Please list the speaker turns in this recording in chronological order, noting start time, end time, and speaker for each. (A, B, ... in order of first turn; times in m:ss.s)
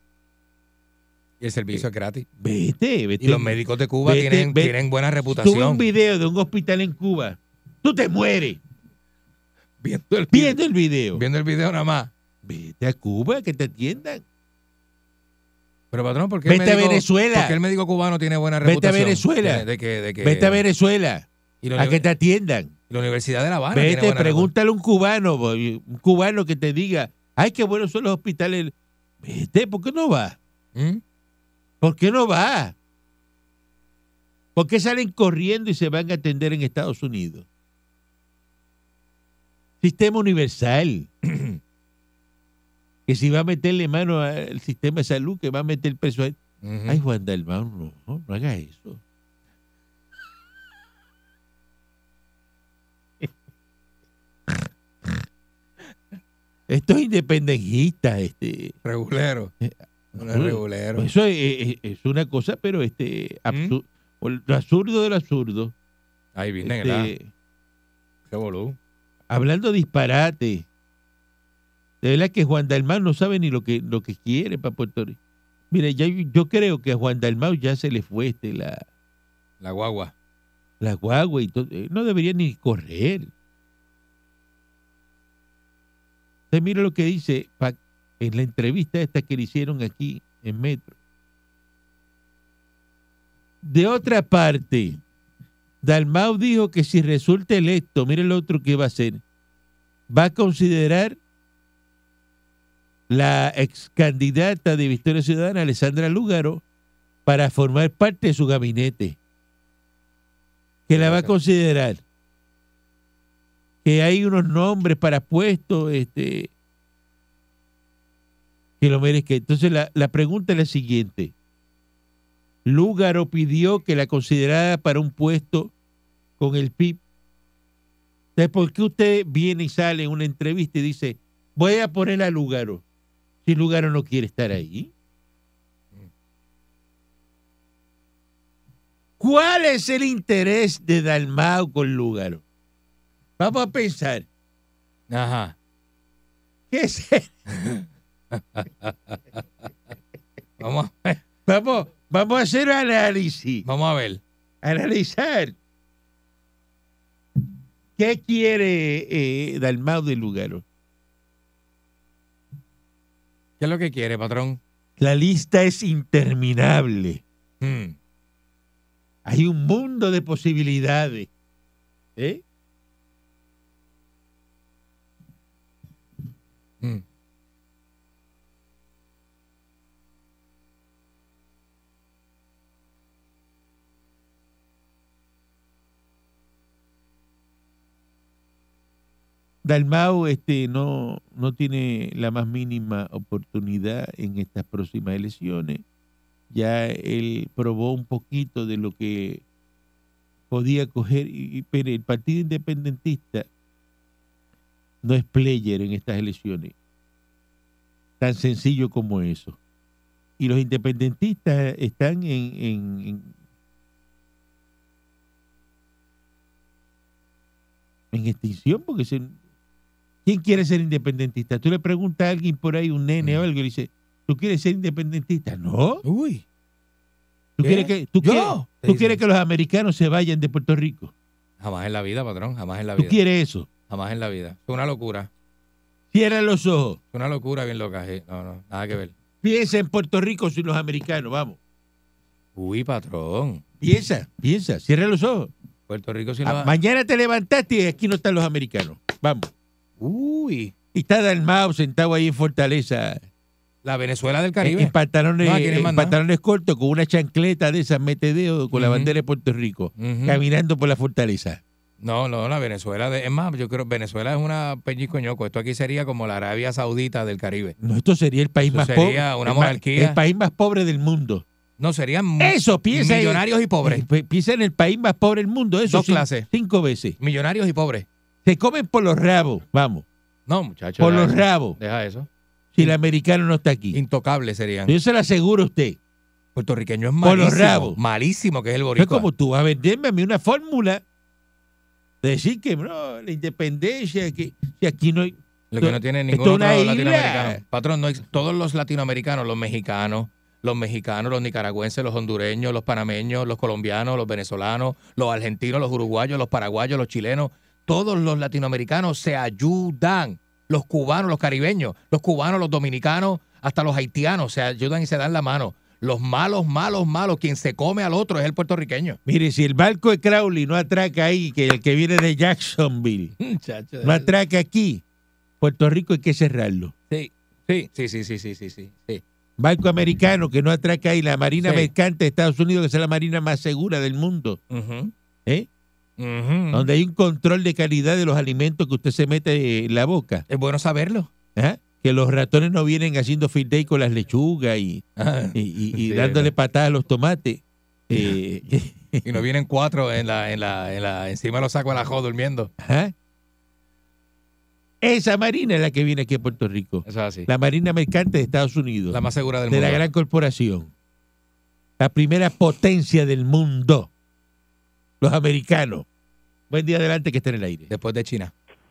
0:01.4-0:02.3 A
0:02.4-0:04.8 B
0:03.2-0:05.8 A
0:05.3-0:08.6 B
0:09.8-0:10.6 A
0:10.3-0:11.2 B
0:11.1-0:12.1 A
0:12.4-0:14.2 B
0:15.9-0:20.6 A
0:16.5-0:17.6 B
0:18.6-0:19.6 B
0:20.2-0:22.7 B
0:21.6-0:22.1 A
0:22.9-0:24.5 A
0:23.7-0:30.4 B
0:30.8-0:31.0 A
0:31.8-0:32.8 B
0:34.6-0:37.4 B
0:39.8-0:41.1 B
0:41.2-0:41.6 A
0:43.1-0:49.0 B
0:46.6-0:47.0 A
0:56.7-0:58.8 B
0:58.8-0:59.5 A
0:59.6-1:05.7 B
1:00.2-1:01.1 A
1:03.5-1:03.8 A
1:06.4-1:07.1 A
1:06.6-1:07.3 B
1:08.3-1:08.8 A
1:09.3-1:10.6 B
1:12.0-1:15.2 B
1:15.7-1:18.8 B
1:19.6-1:20.1 A
1:20.8-1:23.3 B
1:26.5-1:31.0 B
1:33.6-1:35.0 B
1:35.8-1:39.2 B
1:40.1-1:41.2 B
1:43.1-1:46.6 B
1:47.3-1:49.2 B
1:50.9-1:52.0 B
1:51.0-1:51.3 A
1:53.8-1:56.5 B
1:58.8-2:01.3 B
2:02.6-2:05.7 B
2:06.4-2:07.0 B
2:08.4-2:12.8 B
2:13.4-2:14.9 B
2:19.2-2:22.4 B
2:23.4-2:24.3 B
2:25.1-2:25.6 A
2:26.7-2:27.3 B
2:27.5-2:29.7 A
2:30.6-2:31.2 A
2:31.5-2:33.7 B
2:33.6-2:34.2 A
2:34.6-2:35.6 B
2:38.0-2:40.6 B
2:43.6-2:44.6 A
2:45.0-2:47.2 B
2:47.6-2:48.0 A
2:49.2-2:51.3 B
2:52.2-2:52.4 B
3:09.6-3:15.8 B
3:16.5-3:19.4 B
3:20.5-3:23.5 B
3:25.0-3:26.7 B
3:28.2-3:29.6 B
3:30.4-3:33.3 B
3:38.1-3:39.4 B
3:40.2-3:46.0 B
3:46.0-3:46.4 A
3:47.6-3:51.1 B
3:47.6-3:49.2 A
3:51.6-3:53.2 A
3:53.0-3:53.7 B
3:53.9-3:55.3 A
3:56.1-3:57.0 B
3:57.1-3:59.1 A
3:59.4-4:01.6 B
4:02.6-4:03.6 A
4:03.8-4:05.5 B
4:05.9-4:06.7 A
4:06.4-4:09.5 B
4:10.0-4:10.7 A
4:10.9-4:13.2 B
4:13.8-4:16.2 A
4:14.6-4:21.6 B
4:18.7-4:19.2 A
4:20.0-4:20.4 A
4:22.0-4:27.8 A
4:27.8-4:31.4 B
4:28.6-4:30.2 A
4:31.8-4:34.1 A
4:32.4-4:37.2 B
4:35.9-4:36.5 A
4:37.2-4:38.1 A
4:38.4-4:40.0 B
4:40.5-4:42.3 A
4:41.0-4:41.8 B
4:42.7-4:44.0 B
4:43.9-4:44.9 A
4:44.9-4:46.0 B
4:46.6-4:49.3 A
4:47.2-4:48.0 B
4:49.0-4:51.0 B
4:52.2-4:57.6 B
4:55.7-5:19.2 A
5:19.3-5:23.3 B
5:23.4-5:24.3 A
5:24.0-5:25.0 B
5:25.6-5:26.9 B
5:27.1-5:29.2 A
5:29.6-5:34.6 B
5:31.6-5:31.9 A
5:34.7-5:35.1 A
5:36.2-5:36.9 A
5:36.7-5:40.4 B
5:40.5-5:41.3 A
5:41.6-5:49.4 B
5:45.2-5:46.5 A
5:49.3-5:52.7 A
5:52.8-5:53.1 B
5:55.0-6:00.9 B
5:57.1-5:57.5 A
5:59.1-6:00.0 A
6:02.0-6:04.1 B
6:05.2-6:06.1 B
6:06.7-6:07.9 B
6:07.9-6:08.5 A